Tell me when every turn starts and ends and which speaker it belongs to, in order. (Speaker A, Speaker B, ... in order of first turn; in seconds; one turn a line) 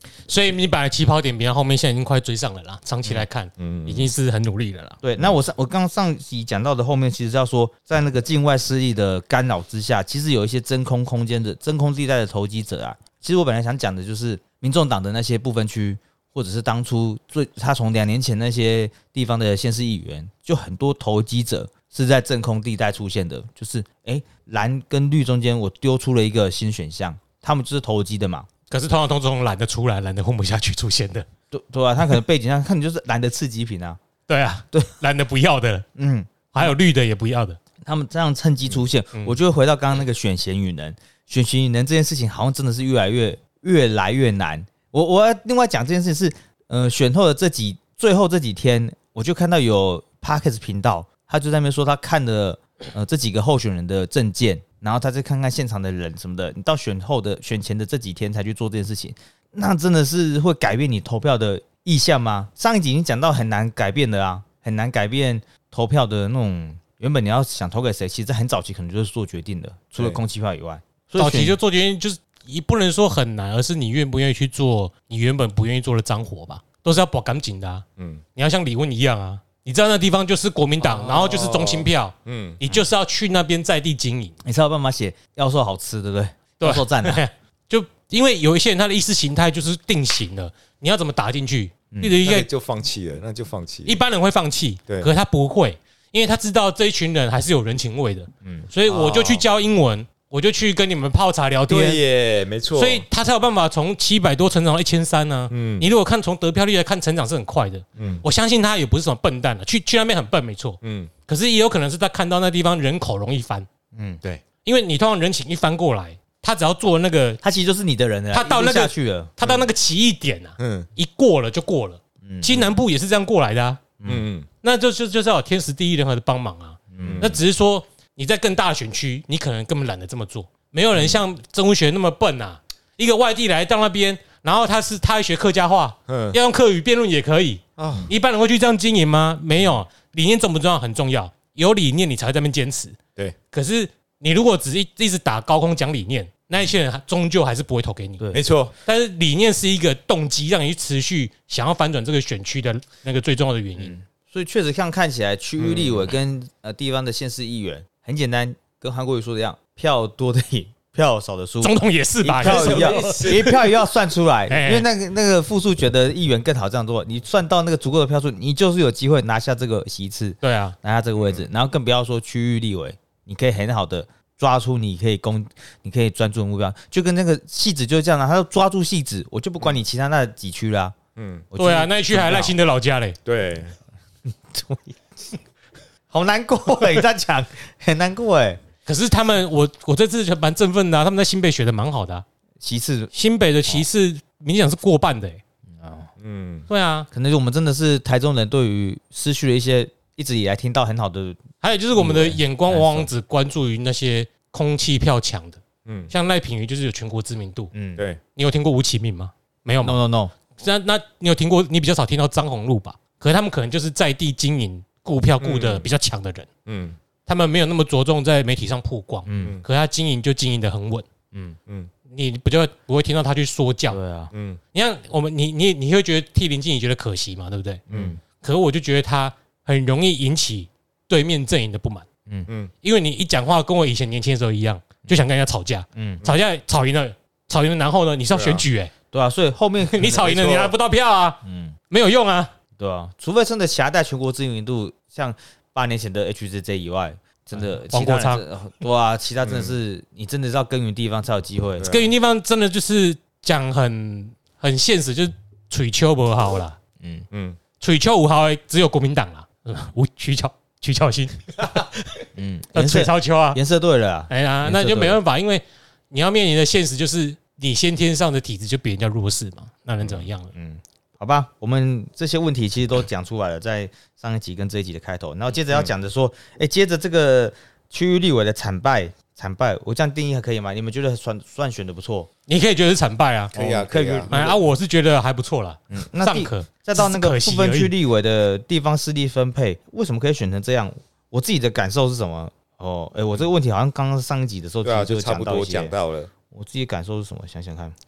Speaker A: 0.3-5.0
Speaker B: 3.0-4.1
Speaker C: 5.0-28.5
Speaker A: 28.7-31.2
Speaker C: 31.5-34.0
Speaker A: 34.3-35.9
Speaker C: 36.0-36.7
Speaker A: 36.5-37.6
Speaker C: 37.8-71.6
Speaker A: 71.2-77.8
Speaker B: 78.0-78.2
Speaker A: 78.3-84.3
Speaker B: 80.8-82.6
Speaker C: 84.4-87.2
Speaker A: 86.6-92.5
Speaker C: 91.9-92.2
Speaker B: 92.2-94.0
Speaker A: 93.8-102.0
Speaker B: 98.8-99.4
Speaker B: 101.7-103.0
Speaker A: 102.8-113.7
Speaker B: 105.5-105.9
Speaker B: 108.0-108.2
Speaker B: 110.8-111.1
Speaker C: 113.9-114.2
Speaker A: 114.6-117.4
Speaker C: 117.4-119.3
Speaker A: 118.3-123.9
Speaker B: 119.4-119.7
Speaker B: 120.6-120.9
Speaker C: 122.2-122.6
Speaker B: 124.0-124.5
Speaker A: 124.6-143.0
Speaker C: 126.9-127.3
Speaker B: 127.0-127.4
Speaker B: 136.1-136.4
Speaker B: 137.8-138.1
Speaker A: 143.5-148.2
Speaker B: 148.3-148.7
Speaker A: 148.8-153.9
Speaker C: 153.8-180.9
Speaker B: 155.6-156.1
Speaker A: 161.6-163.6
Speaker B: 162.4-163.5
Speaker A: 164.5-164.8
Speaker A: 170.4-170.8
Speaker B: 171.2-171.4
Speaker B: 181.2-181.5
Speaker C: 181.5-182.6
Speaker A: 181.6-183.2
Speaker B: 183.2-183.7
Speaker C: 184.3-185.4
Speaker C: 186.1-188.6
Speaker A: 188.8-192.2
Speaker C: 192.6-193.1
Speaker A: 193.1-195.4
Speaker C: 195.8-196.1
Speaker B: 196.2-196.7
Speaker A: 196.7-197.1
Speaker C: 197.1-201.4
Speaker A: 201.6-207.7
Speaker C: 201.9-203.1
Speaker B: 205.8-206.1
Speaker C: 207.7-208.0
Speaker A: 208.3-210.0
Speaker C: 209.8-210.3
Speaker A: 210.6-216.5
Speaker B: 215.4-215.9
Speaker B: 216.7-217.0
Speaker A: 217.2-221.1
Speaker C: 219.2-219.6
Speaker B: 221.7-221.9
Speaker A: 222.1-224.0
Speaker C: 223.9-224.3
Speaker B: 224.3-224.6
Speaker A: 224.7-227.8
Speaker B: 227.9-228.2
Speaker C: 227.9-228.2
Speaker A: 228.4-232.1
Speaker A: 232.8-238.9
Speaker C: 235.9-236.2
Speaker B: 238.3-238.7
Speaker C: 239.1-240.7
Speaker A: 239.9-242.5
Speaker B: 240.2-240.7
Speaker C: 241.4-241.7
Speaker C: 242.8-251.9
Speaker A: 247.9-248.4
Speaker B: 249.4-249.8
Speaker B: 251.8-252.1
Speaker A: 251.9-256.8
Speaker C: 257.0-257.2
Speaker B: 257.3-257.6
Speaker A: 257.8-261.9
Speaker C: 262.3-265.2
Speaker A: 262.8-263.6
Speaker A: 264.3-270.5
Speaker B: 270.0-270.3
Speaker C: 270.5-282.3
Speaker A: 282.5-283.5
Speaker B: 283.5-284.3
Speaker C: 283.5-284.6
Speaker A: 284.3-287.9
Speaker C: 285.9-295.9
Speaker B: 294.8-296.3
Speaker C: 296.5-297.9